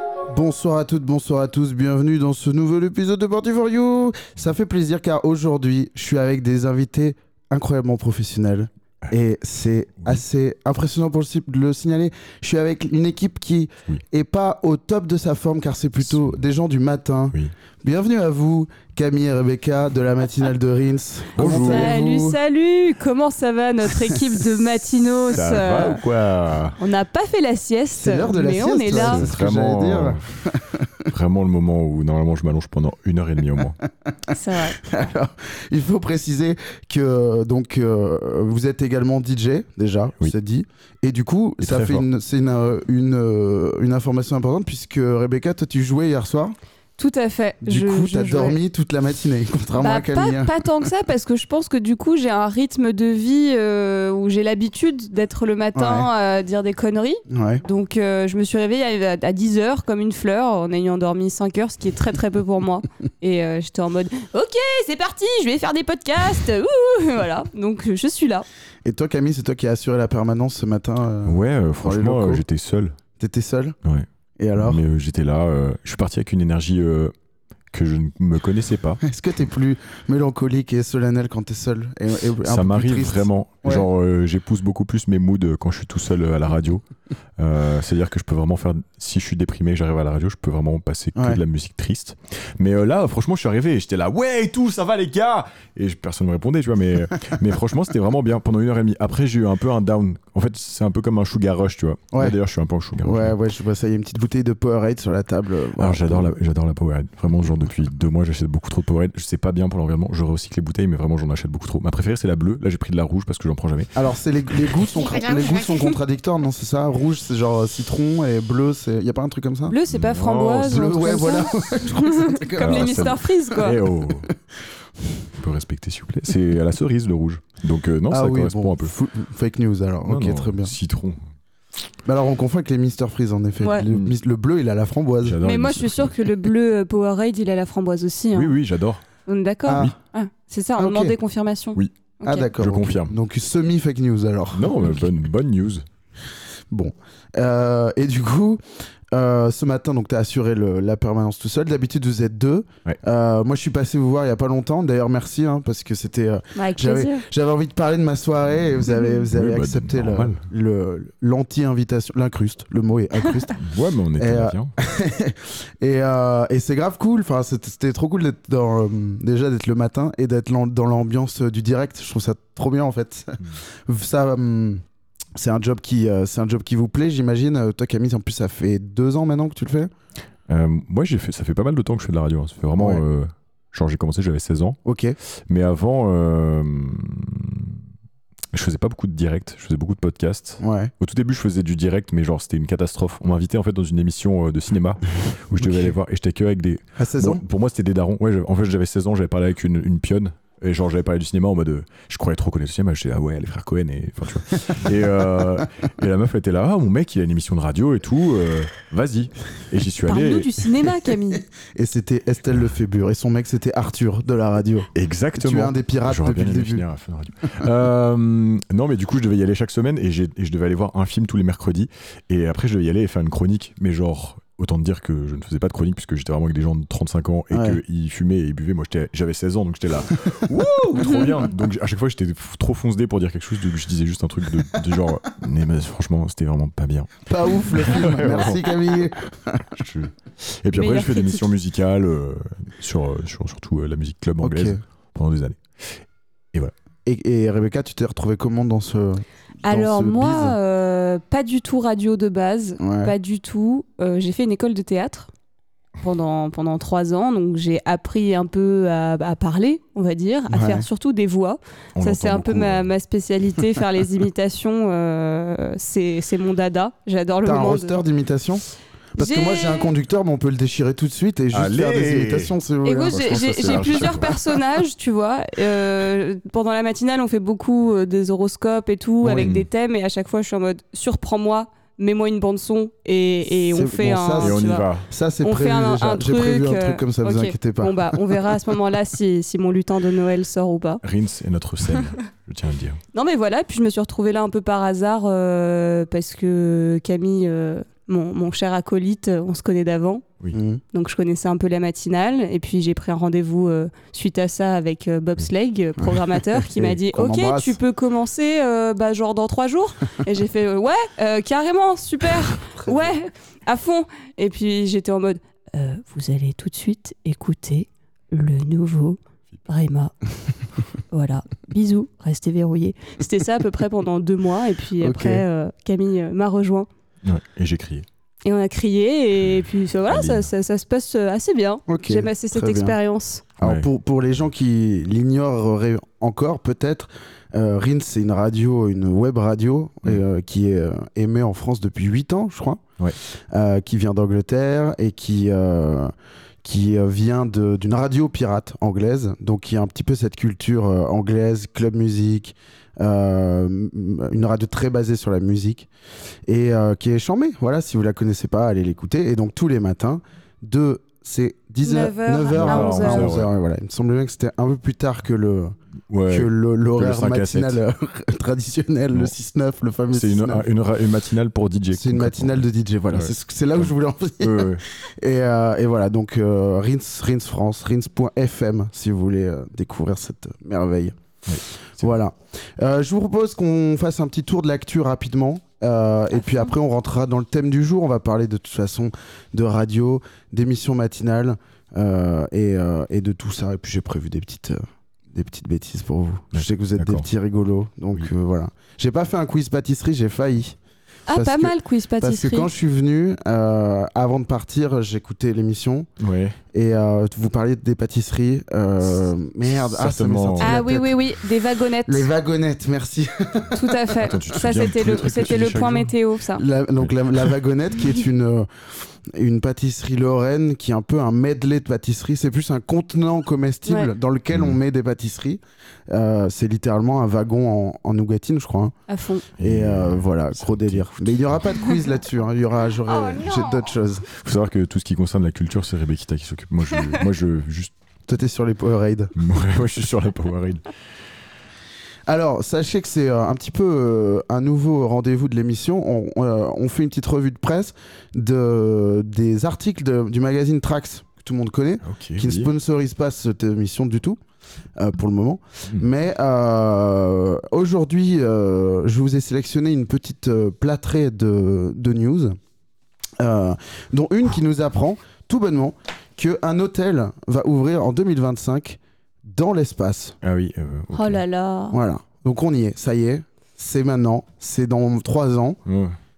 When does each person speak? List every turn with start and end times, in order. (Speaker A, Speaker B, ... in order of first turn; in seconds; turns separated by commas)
Speaker A: 0.3-22.4, Speaker B: 16.0-16.4, Speaker B: 21.4-22.0, Speaker C: 21.4-26.0, Speaker B: 25.3-26.8, Speaker C: 26.8-29.3, Speaker A: 27.9-30.9, Speaker B: 28.9-30.2, Speaker B: 31.1-33.8, Speaker C: 34.3-34.8, Speaker A: 34.8-46.5, Speaker B: 41.6-42.0, Speaker C: 47.0-48.6, Speaker A: 47.6-50.5, Speaker C: 49.8-68.5, Speaker A: 55.7-56.1, Speaker A: 57.3-57.6, Speaker A: 68.8-72.4, Speaker B: 71.2-72.9, Speaker A: 73.2-73.8, Speaker A: 74.4-74.8, Speaker B: 74.6-77.1, Speaker B: 77.7-79.0, Speaker A: 79.0-83.9, Speaker B: 82.4-86.8, Speaker B: 87.4-103.4, Speaker A: 91.2-91.4, Speaker A: 103.0-106.3, Speaker B: 105.8-113.9, Speaker A: 114.0-119.8, Speaker C: 114.9-115.9, Speaker C: 119.7-123.8, Speaker B: 119.9-121.3, Speaker A: 120.7-123.2, Speaker B: 122.6-124.3, Speaker B: 125.3-128.9, Speaker A: 128.1-130.7, Speaker B: 130.0-131.2, Speaker A: 132.0-135.4, Speaker B: 133.8-134.2, Speaker B: 135.2-136.2, Speaker C: 135.4-138.5, Speaker B: 138.3-139.0, Speaker C: 139.3-142.4, Speaker A: 139.7-139.9, Speaker B: 139.7-139.9, Speaker A: 140.8-141.1, Speaker A: 142.2-145.0, Speaker B: 142.6-143.1, Speaker B: 144.5-145.8, Speaker A: 146.7-163.6, Speaker C: 156.5-157.2, Speaker B: 159.3-160.4, Speaker B: 163.6-164.7, Speaker A: 164.2-174.8, Speaker A: 175.3-179.9, Speaker B: 180.5-184.8, Speaker A: 182.8-183.0, Speaker A: 184.8-185.2, Speaker B: 185.5-187.8, Speaker B: 188.5-210.6, Speaker A: 190.6-190.9, Speaker A: 195.6-195.9, Speaker A: 197.0-197.4, Speaker C: 210.1-211.4, Speaker A: 211.6-216.8, Speaker B: 214.9-238.7, Speaker A: 227.5-227.8, Speaker A: 237.2-239.8, Speaker B: 239.8-246.0, Speaker C: 240.7-241.4, Speaker A: 244.4-244.8, Speaker A: 247.1-250.6, Speaker C: 249.6-255.3, Speaker A: 252.8-253.1, Speaker C: 256.0-268.0, Speaker A: 260.5-260.9, Speaker B: 261.9-262.9, Speaker A: 267.4-273.8, Speaker C: 269.2-269.9, Speaker B: 271.5-272.5, Speaker C: 272.8-284.9, Speaker B: 273.1-274.3, Speaker A: 279.2-279.6, Speaker B: 279.4-279.7, Speaker A: 283.6-288.4, Speaker B: 284.4-285.1, Speaker C: 285.4-291.0, Speaker B: 291.0-293.0, Speaker C: 293.1-300.2, Speaker A: 300.5-300.8, Speaker C: 300.9-320.1, Speaker A: 306.6-307.8, Speaker C: 321.1-326.9, Speaker A: 325.0-325.4, Speaker B: 327.2-328.1, Speaker C: 328.4-333.4, Speaker B: 330.1-330.4, Speaker A: 331.9-333.0, Speaker A: 333.6-342.8, Speaker B: 333.6-333.9, Speaker A: 343.5-346.1, Speaker A: 346.6-355.9, Speaker A: 356.5-365.8, Speaker C: 361.8-363.3, Speaker B: 362.5-363.5, Speaker B: 366.1-367.8, Speaker A: 366.3-370.6, Speaker B: 370.1-374.8, Speaker A: 371.9-381.2, Speaker B: 381.5-382.1, Speaker A: 382.0-400.8, Speaker B: 396.5-397.2, Speaker C: 401.3-402.7, Speaker A: 401.3-406.1, Speaker B: 406.2-406.6, Speaker A: 406.7-411.1, Speaker B: 409.8-410.8, Speaker C: 410.6-412.3, Speaker A: 412.0-413.9, Speaker C: 413.7-416.6, Speaker B: 414.2-416.1, Speaker A: 416.6-418.7, Speaker B: 417.0-417.5, Speaker A: 419.2-428.9, Speaker B: 424.5-424.8, Speaker C: 429.1-429.4, Speaker B: 429.6-431.6, Speaker A: 429.6-434.3, Speaker C: 433.1-433.9, Speaker B: 434.4-437.9, Speaker A: 438.3-439.3, Speaker B: 439.4-440.8, Speaker A: 442.3-454.4, Speaker B: 452.0-452.7, Speaker A: 455.0-462.6, Speaker A: 463.4-470.4, Speaker B: 470.4-471.4, Speaker C: 471.1-472.0, Speaker A: 471.9-475.8, Speaker B: 475.9-476.1